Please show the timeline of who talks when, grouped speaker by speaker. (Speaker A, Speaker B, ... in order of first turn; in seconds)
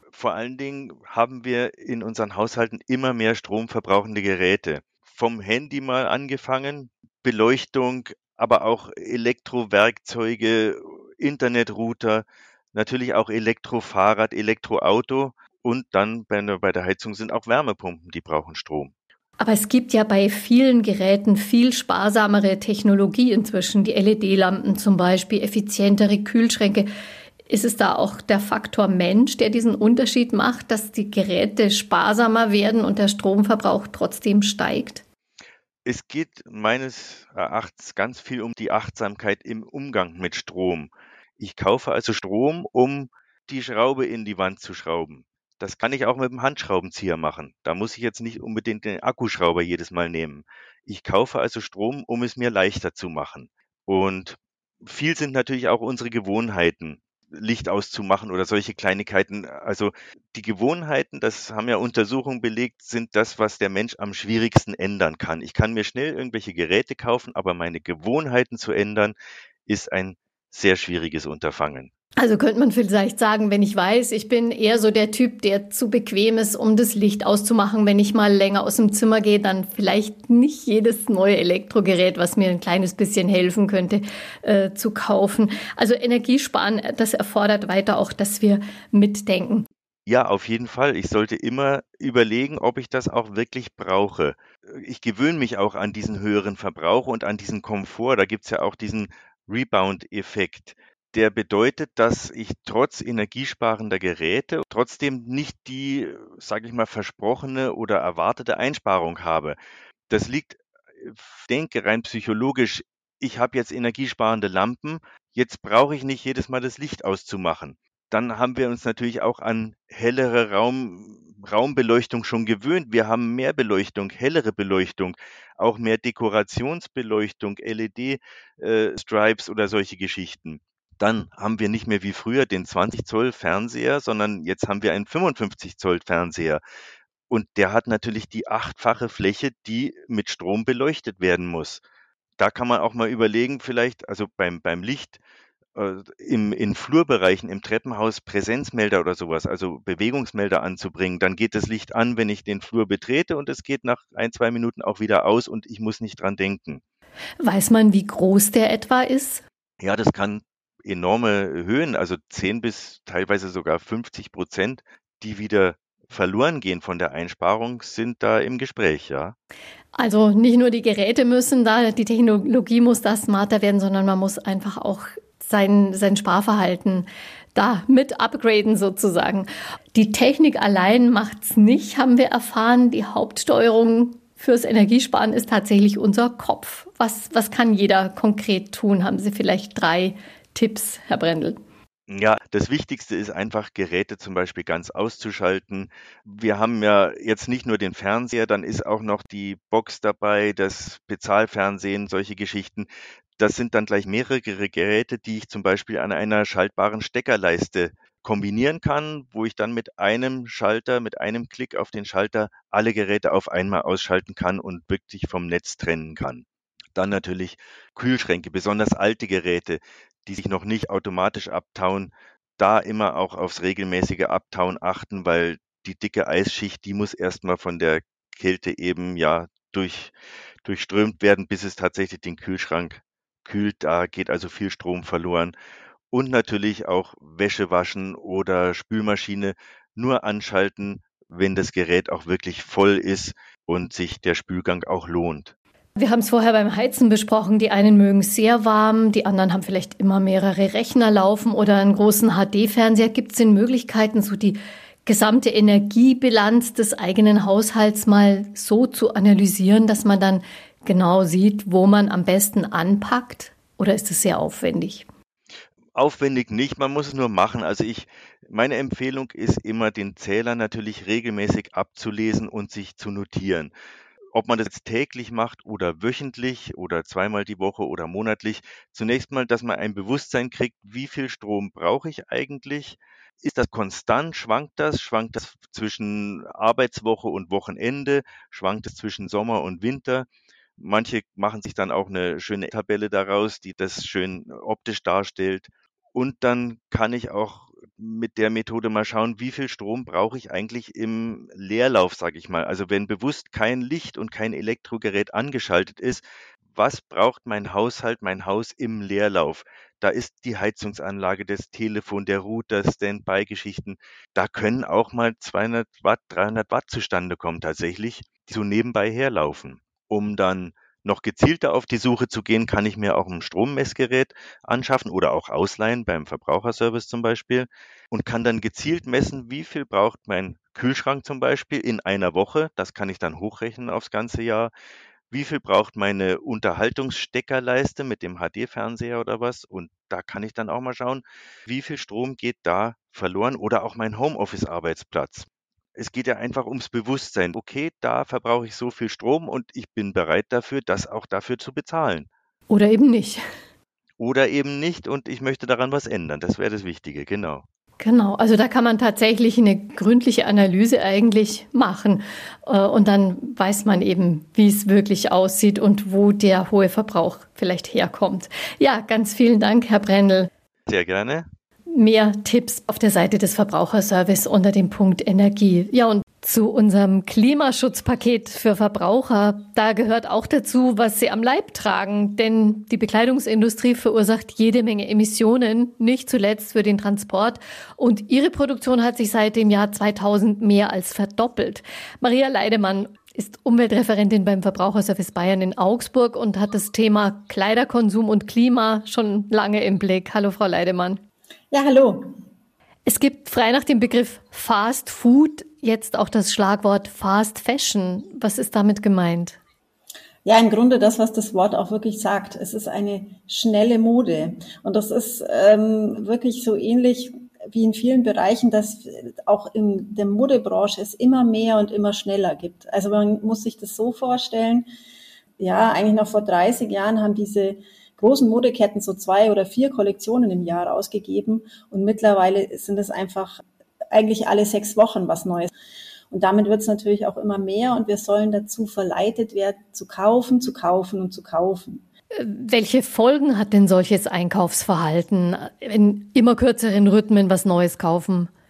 Speaker A: 0.1-18.9, 35.8-69.1, 69.7-71.9, 90.0-109.6, 110.1-136.6, 137.3-141.8, 142.4-145.2, 145.8-156.8, 159.8-169.3, 192.1-235.5, 236.1-245.5, 265.9-273.7, 274.3-290.3, 290.8-334.7, 335.3-352.3, 354.2-357.6, 370.9-371.5
Speaker B: 19.4-26.9, 27.5-35.0, 72.2-89.7, 157.4-159.4, 169.9-191.6, 245.9-265.1, 352.7-353.4, 358.0-370.5, 371.9-401.2, 403.1-409.6, 442.4-448.5
Speaker C: 401.7-402.3, 410.4-424.9, 425.6-433.6, 434.1-435.7, 436.3-442.0